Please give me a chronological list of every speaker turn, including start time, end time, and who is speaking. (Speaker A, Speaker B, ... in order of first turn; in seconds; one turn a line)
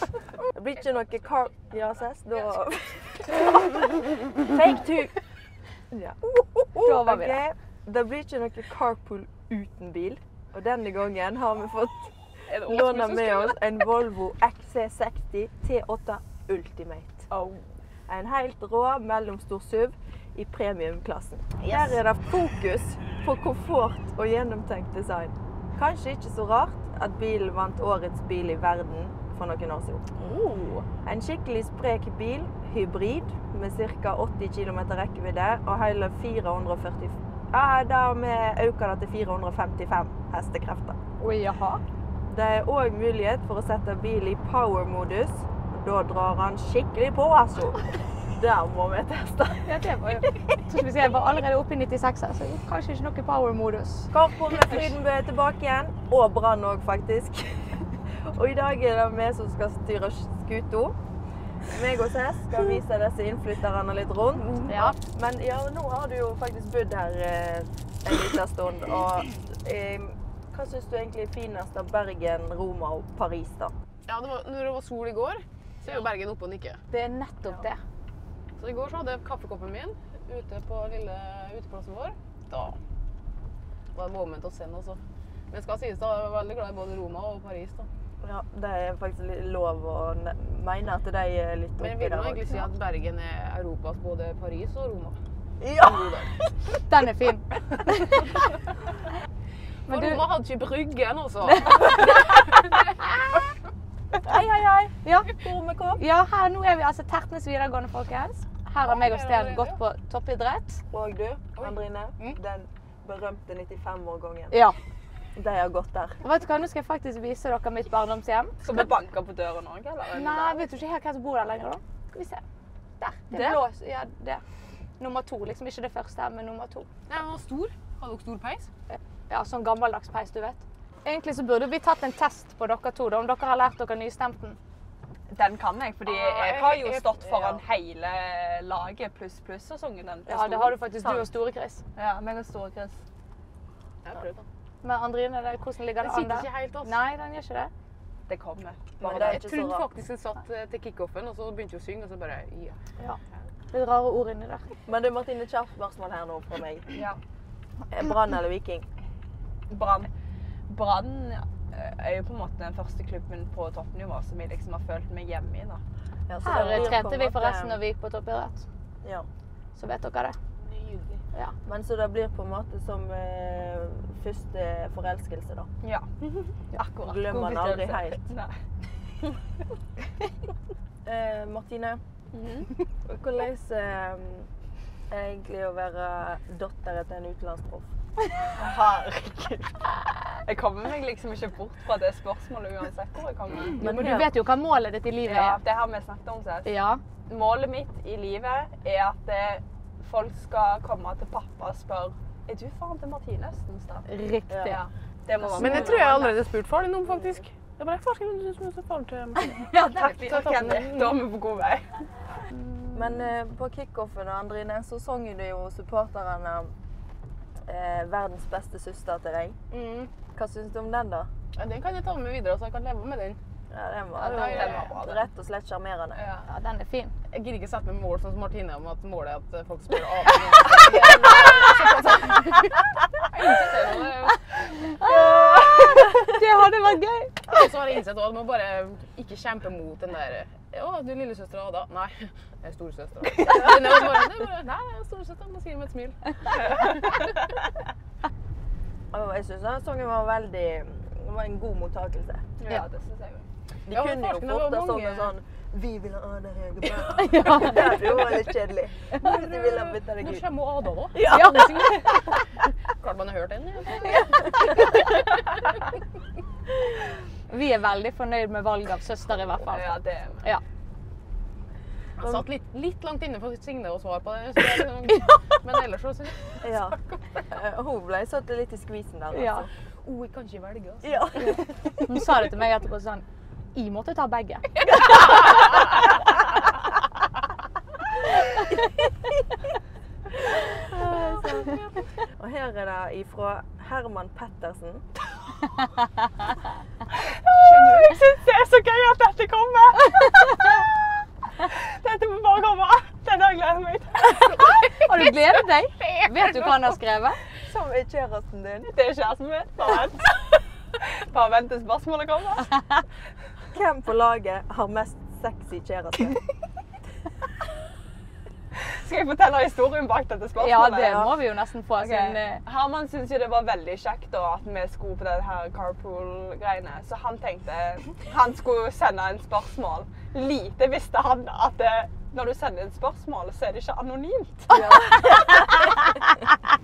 Speaker A: 0.5-3.6
Speaker A: 4.4-5.2
Speaker A: 5.9-17.3
Speaker B: 6.8-7.4
Speaker C: 12.5-13.6
Speaker A: 18.1-30.1
Speaker C: 30.2-30.9
Speaker A: 31.1-41.0
Speaker B: 41.2-41.8
Speaker A: 42.3-50.6
Speaker B: 49.6-54.1
Speaker A: 54.1-61.0
Speaker A: 61.7-73.7
Speaker B: 64.7-65.0
Speaker C: 74.1-76.8
Speaker B: 76.9-77.8
Speaker C: 78.6-82.8
Speaker C: 83.9-85.0
Speaker C: 85.5-87.9
Speaker A: 88.2-92.6
Speaker C: 91.8-95.2
Speaker A: 95.6-96.5
Speaker C: 95.8-96.3
Speaker B: 96.9-98.4
Speaker C: 99.9-102.9
Speaker B: 99.9-100.2
Speaker B: 101.5-103.4
Speaker B: 104.2-105.3
Speaker A: 105.3-106.0
Speaker B: 106.0-110.8
Speaker C: 108.8-109.8
Speaker A: 110.9-114.6
Speaker C: 111.6-112.4
Speaker B: 114.5-114.8
Speaker A: 115.3-116.2
Speaker B: 116.2-118.9
Speaker D: 118.6-120.7
Speaker B: 120.1-122.4
Speaker B: 123.0-124.4
Speaker D: 123.3-123.6
Speaker B: 125.0-126.9
Speaker C: 127.1-128.7
Speaker B: 128.9-134.6
Speaker D: 135.3-141.3
Speaker C: 136.1-137.6
Speaker B: 140.3-141.8
Speaker D: 141.9-143.0
Speaker C: 144.0-144.5
Speaker B: 144.8-147.7
Speaker C: 146.0-147.0
Speaker D: 148.3-148.9
Speaker C: 149.0-152.8
Speaker A: 149.0-149.9
Speaker B: 153.7-154.7
Speaker A: 154.9-156.9
Speaker D: 156.9-157.2
Speaker A: 157.9-158.9
Speaker D: 159.7-160.1
Speaker D: 160.7-165.8
Speaker A: 166.3-167.8
Speaker B: 166.4-168.6
Speaker A: 169.0-169.3
Speaker B: 169.8-170.4
Speaker C: 170.6-171.2
Speaker A: 171.7-175.7
Speaker D: 175.8-176.1
Speaker D: 176.7-178.6
Speaker A: 177.0-178.3
Speaker A: 181.1-182.0
Speaker D: 182.3-182.7
Speaker A: 183.1-184.5
Speaker A: 185.1-187.9
Speaker D: 188.5-193.8
Speaker A: 193.8-194.3
Speaker B: 193.8-195.6
Speaker D: 195.2-196.7
Speaker B: 196.7-197.0
Speaker D: 197.3-204.1
Speaker B: 204.1-204.8
Speaker A: 204.5-204.8
Speaker D: 204.7-206.2
Speaker B: 205.4-206.3
Speaker C: 205.6-211.2
Speaker B: 209.4-210.7
Speaker D: 209.8-212.1
Speaker B: 212.5-213.2
Speaker A: 212.9-216.7
Speaker A: 217.7-219.6
Speaker C: 219.7-220.1
Speaker A: 220.3-221.3
Speaker C: 221.5-223.4
Speaker A: 223.7-226.2
Speaker C: 224.2-224.9
Speaker D: 224.3-225.3
Speaker D: 226.2-226.5
Speaker B: 226.5-227.1
Speaker C: 227.3-234.7
Speaker B: 234.9-237.6
Speaker C: 237.5-247.2
Speaker D: 246.7-247.1
Speaker A: 249.1-252.4
Speaker D: 252.6-253.5
Speaker A: 253.9-260.5
Speaker C: 253.9-255.3
Speaker B: 257.1-258.4
Speaker C: 259.2-262.1
Speaker A: 261.2-262.1
Speaker B: 261.2-262.4
Speaker C: 263.0-264.9
Speaker B: 264.1-264.9
Speaker B: 267.5-270.6
Speaker D: 269.7-270.4
Speaker C: 272.2-277.4
Speaker B: 275.1-275.3
Speaker A: 276.6-279.7
Speaker B: 279.3-279.7
Speaker C: 280.0-281.1
Speaker A: 281.0-282.1
Speaker B: 281.4-284.8
Speaker C: 285.0-285.8
Speaker A: 290.5-295.1
Speaker C: 291.1-291.9
Speaker D: 297.1-300.8
Speaker C: 297.5-298.2
Speaker D: 301.6-304.6
Speaker C: 304.4-306.7
Speaker B: 304.9-307.4
Speaker A: 307.6-308.9
Speaker D: 308.9-312.8
Speaker A: 313.7-316.4
Speaker D: 318.7-321.4
Speaker B: 320.6-322.6
Speaker D: 322.0-334.8
Speaker A: 334.7-335.8
Speaker B: 335.1-335.8